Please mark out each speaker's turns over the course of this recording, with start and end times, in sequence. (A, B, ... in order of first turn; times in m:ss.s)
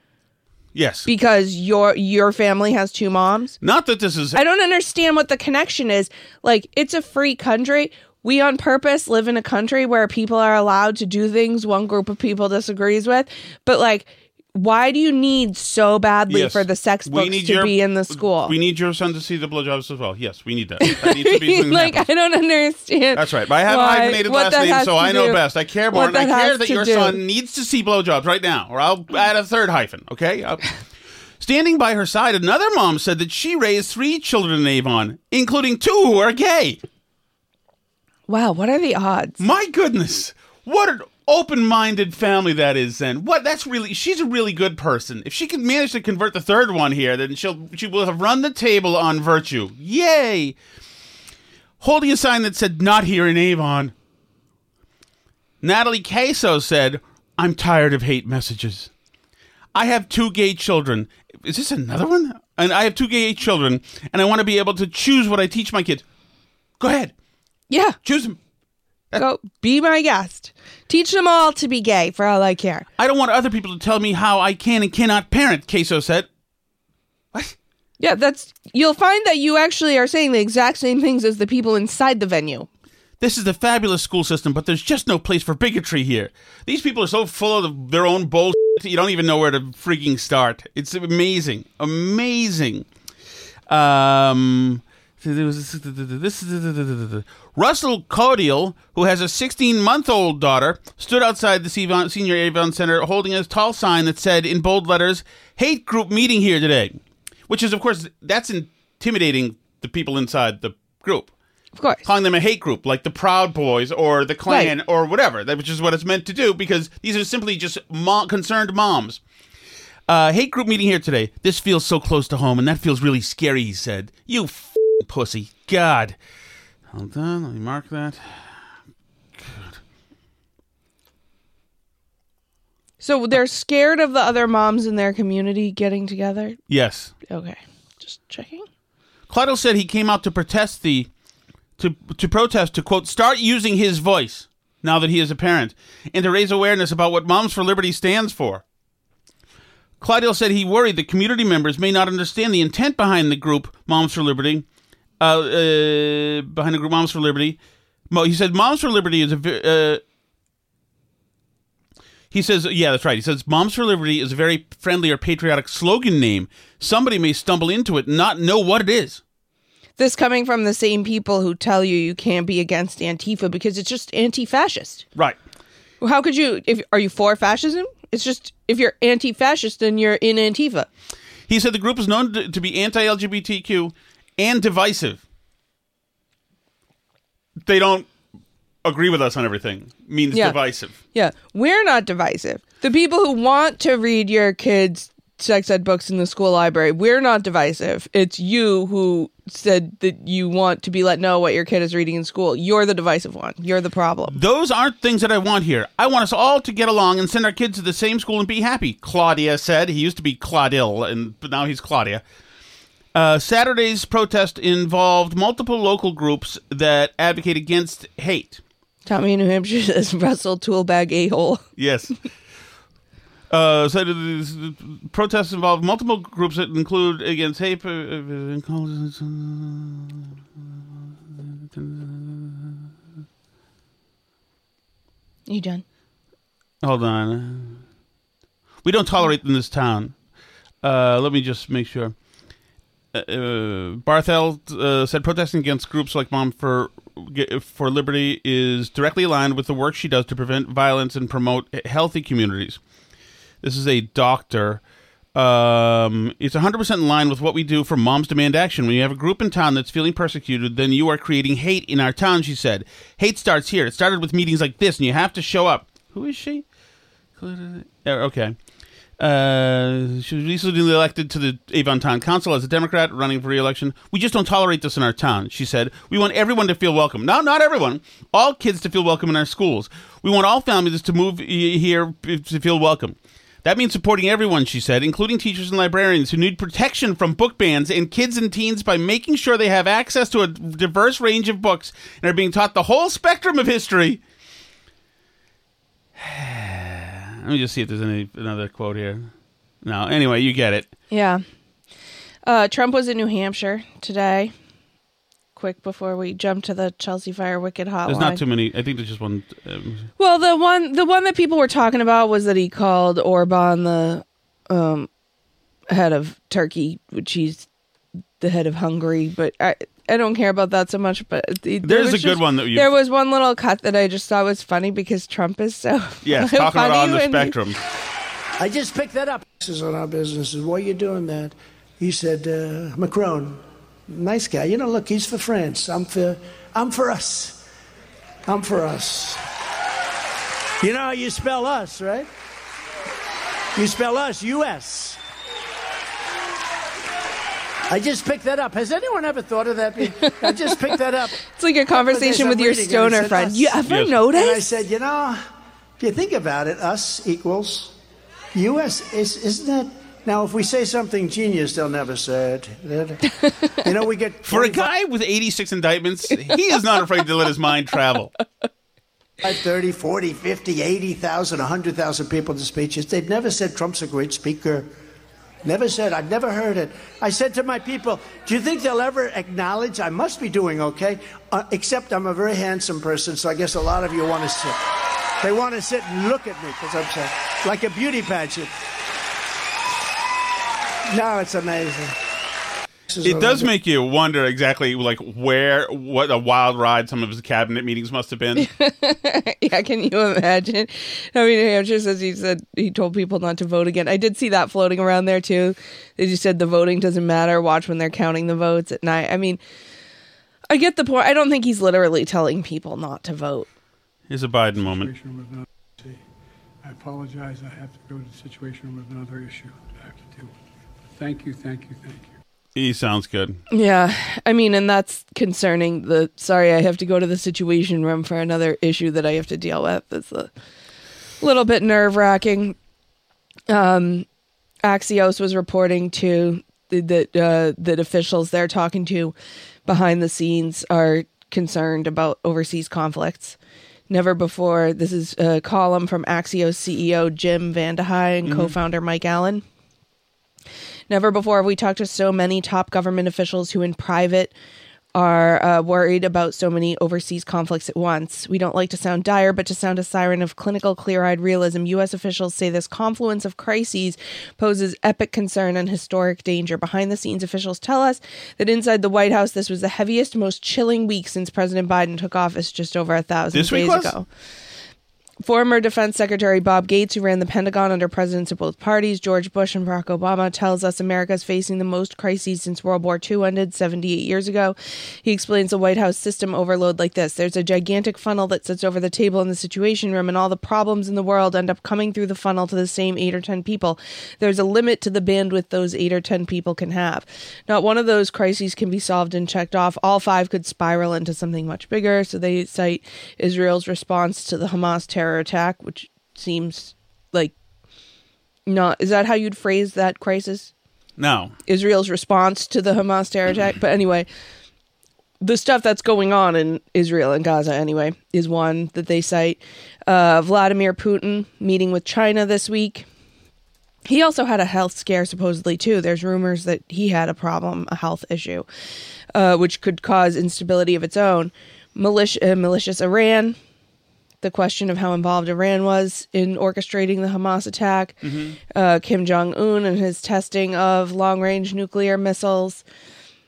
0:00.7-0:01.1 A
0:01.1-0:03.6 B
0:03.6-0:04.4 A
0:04.3-0:18.5 B
0:16.3-0:22.0 A
0:20.8-0:25.4 B
0:23.1-0:30.7 A
0:25.9-0:27.2 B
0:31.4-0:36.8 A
0:38.3-0:39.4 B
0:39.4-0:50.6 A
0:51.8-0:53.9 A
0:55.6-0:58.9 A
0:59.7-1:06.0 A
1:06.8-1:07.1 A
1:07.7-1:08.0 B
1:08.0-1:08.4 A
1:09.2-1:12.8 B
1:13.0-1:16.3 A
1:18.0-1:22.7 B
1:23.2-1:32.8 A
1:33.7-1:47.0 A
1:47.5-1:51.3 A
1:51.8-1:52.0 B
1:52.0-1:59.2 A
1:54.5-1:54.7 B
2:00.1-2:06.2 A
2:06.9-2:08.7 A
2:09.4-2:09.8 A
2:13.0-2:16.6 B
2:16.7-2:17.1 A
2:17.3-2:18.6 B
2:19.3-2:21.1 A
2:21.8-2:28.6 A
2:30.0-2:34.6 A
2:35.2-2:37.6 A
2:38.1-2:40.0 A
2:42.3-2:49.2 A
2:50.0-2:55.0 B
2:56.0-3:00.9 B
3:01.5-3:05.2 A
3:07.6-3:08.1 A
3:08.8-3:10.9 A
3:10.3-3:10.6 B
3:11.1-3:24.4 B
3:24.3-3:32.2 A
3:33.1-3:38.6 A
3:39.0-3:41.6 B
3:41.8-3:42.1 A
3:43.5-3:50.6 A
3:51.4-3:52.8 A
3:55.5-3:55.8 B
3:56.8-3:57.8 A
3:58.8-4:00.1 A
4:00.8-4:02.1 A
4:03.1-4:12.8 A
4:13.6-4:14.8 A
4:15.3-4:26.6 A
4:27.4-4:28.6 A
4:29.2-4:54.2 A
4:56.2-4:59.3 A
4:59.8-5:00.9 A
5:01.1-5:01.4 B
5:02.4-5:04.5 B
5:05.5-5:08.4 B
5:08.0-5:10.1 A
5:10.2-5:15.1 B
5:15.9-5:17.7 B
5:18.4-5:27.6 B
5:21.8-5:22.9 A
5:26.2-5:27.8 A
5:28.6-5:37.6 C
5:38.5-5:39.4 C
5:40.8-5:42.3 C
5:43.7-5:45.2 C
5:47.9-5:53.8 C
5:50.2-5:50.8 B
5:51.4-5:54.6 B
5:53.9-5:54.1 A
5:54.3-5:55.4 C
5:56.0-5:58.0 C
5:58.5-6:03.2 C
6:03.8-6:04.9 C
6:04.4-6:08.3 A
6:09.4-6:14.9 C
6:15.6-6:24.8 C
6:25.4-6:28.7 C
6:31.1-6:32.2 C
6:33.1-6:33.7 C
6:33.2-6:38.7 A
6:38.6-6:49.6 B
6:50.7-6:53.7 B
6:54.3-6:55.1 A
6:54.8-6:56.2 D
6:56.8-7:00.5 D
7:01.1-7:02.3 D
7:02.7-7:03.6 A
7:03.7-7:10.5 B
7:11.4-7:12.7 B
7:13.7-7:14.2 B
7:14.8-7:19.3 B
7:19.8-7:23.6 B
7:24.1-7:29.6 B
7:28.4-7:28.8 A
7:31.1-7:34.5 B
7:35.1-7:54.2 B
7:53.5-7:54.1 A
7:55.4-8:27.5 B
8:28.6-8:30.7 B
8:31.2-8:31.5 A
8:31.7-8:34.3 B
8:35.4-8:43.0 B
8:44.1-8:48.6 B
8:49.3-8:53.6 B
8:54.4-8:58.2 B
8:58.2-8:58.6 A
8:58.7-9:02.8 B